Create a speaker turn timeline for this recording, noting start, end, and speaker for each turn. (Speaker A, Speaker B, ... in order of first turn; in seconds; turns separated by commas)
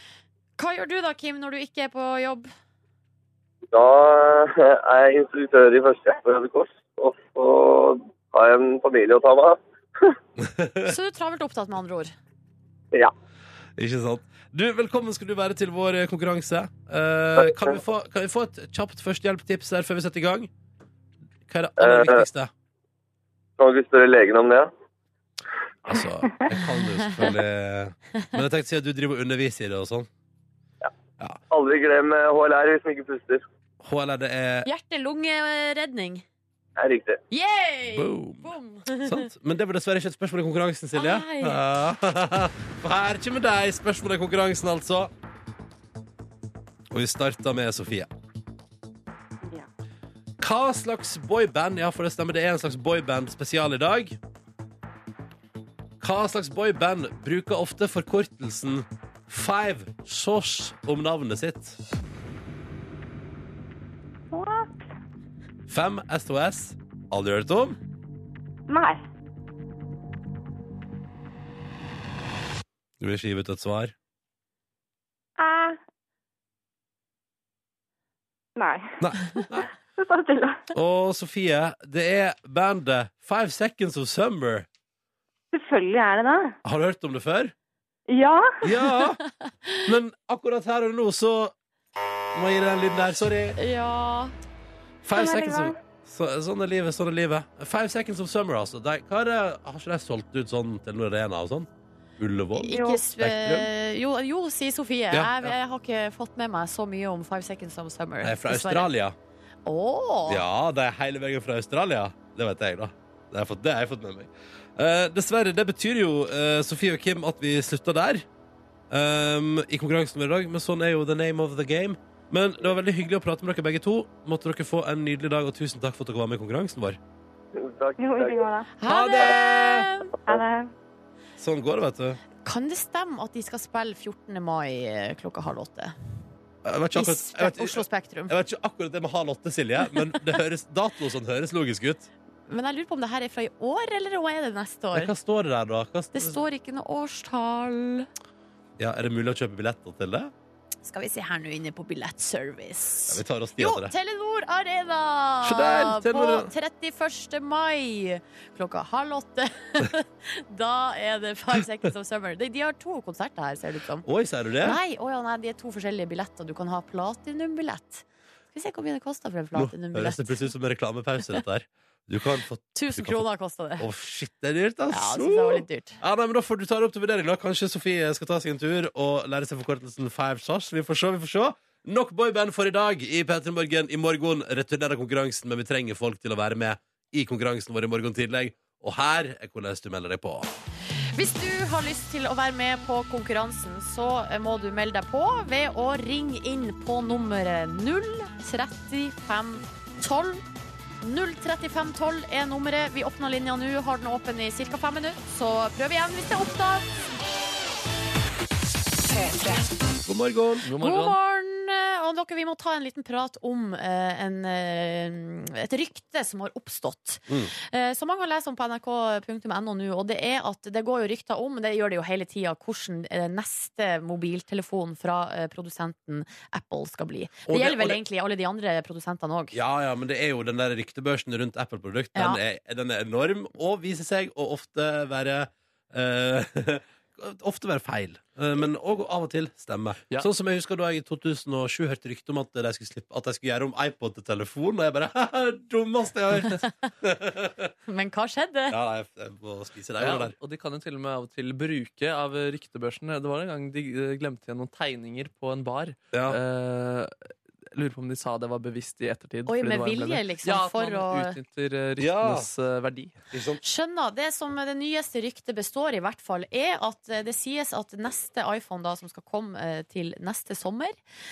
Speaker A: 0.6-2.5, Speaker B: 3.7-10.1, Speaker C: 10.4-10.9, Speaker A: 10.8-12.1, Speaker C: 13.8-20.5, Speaker C: 21.5-22.5, Speaker B: 21.8-22.2, Speaker B: 23.6-24.7, Speaker C: 25.9-30.1, Speaker B: 31.5-33.4, Speaker C: 33.8-34.7, Speaker A: 34.6-36.2, Speaker B: 36.8-37.2, Speaker A: 37.3-39.3, Speaker C: 37.9-45.1, Speaker A: 40.9-41.6, Speaker C: 46.9-48.1, Speaker C: 50.4-54.2, Speaker C: 56.0-61.8, Speaker D: 64.3-64.8, Speaker C: 65.7-67.8, Speaker D: 68.7-69.0, Speaker C: 73.0-73.9, Speaker D: 75.4-75.8, Speaker D: 78.6-80.7, Speaker C: 79.0-79.7, Speaker C: 80.7-84.7, Speaker D: 85.5-86.5, Speaker C: 86.6-87.5, Speaker D: 88.1-88.6, Speaker C: 88.6-89.2, Speaker A: 89.5-89.9, Speaker C: 89.8-91.5, Speaker C: 92.3-93.6, Speaker A: 93.6-94.3, Speaker C: 95.0-103.7, Speaker D: 95.1-95.8, Speaker A: 102.6-108.9, Speaker D: 102.7-103.0, Speaker C: 105.1-105.5, Speaker C: 108.2-109.2, Speaker A: 109.7-110.4, Speaker C: 110.3-118.2, Speaker C: 118.9-127.0, Speaker B: 127.5-128.4, Speaker D: 128.0-128.7, Speaker A: 128.8-130.1, Speaker C: 128.8-129.9, Speaker D: 130.2-130.7, Speaker C: 131.4-132.2, Speaker A: 132.4-135.9, Speaker C: 136.6-142.1, Speaker A: 136.9-138.3, Speaker A: 142.5-145.1, Speaker C: 144.9-146.4, Speaker A: 146.1-148.1, Speaker C: 148.8-150.3, Speaker A: 150.8-164.1, Speaker C: 153.1-153.9, Speaker C: 155.4-156.5, Speaker C: 164.0-164.8, Speaker A: 164.6-170.5, Speaker C: 169.5-173.2, Speaker A: 172.7-173.8, Speaker C: 173.8-190.5, Speaker A: 174.9-176.0, Speaker A: 191.2-200.4, Speaker A: 201.0-206.8, Speaker C: 210.0-210.7, Speaker E: 210.7-211.2, Speaker A: 210.8-229.6, Speaker C: 227.5-228.0, Speaker C: 229.5-247.7, Speaker A: 247.9-248.8, Speaker C: 248.7-250.3, Speaker E: 250.0-257.1, Speaker C: 256.1-256.4, Speaker E: 257.7-263.1, Speaker A: 259.5-261.4, Speaker C: 262.0-262.5, Speaker C: 263.3-263.6, Speaker A: 263.6-270.9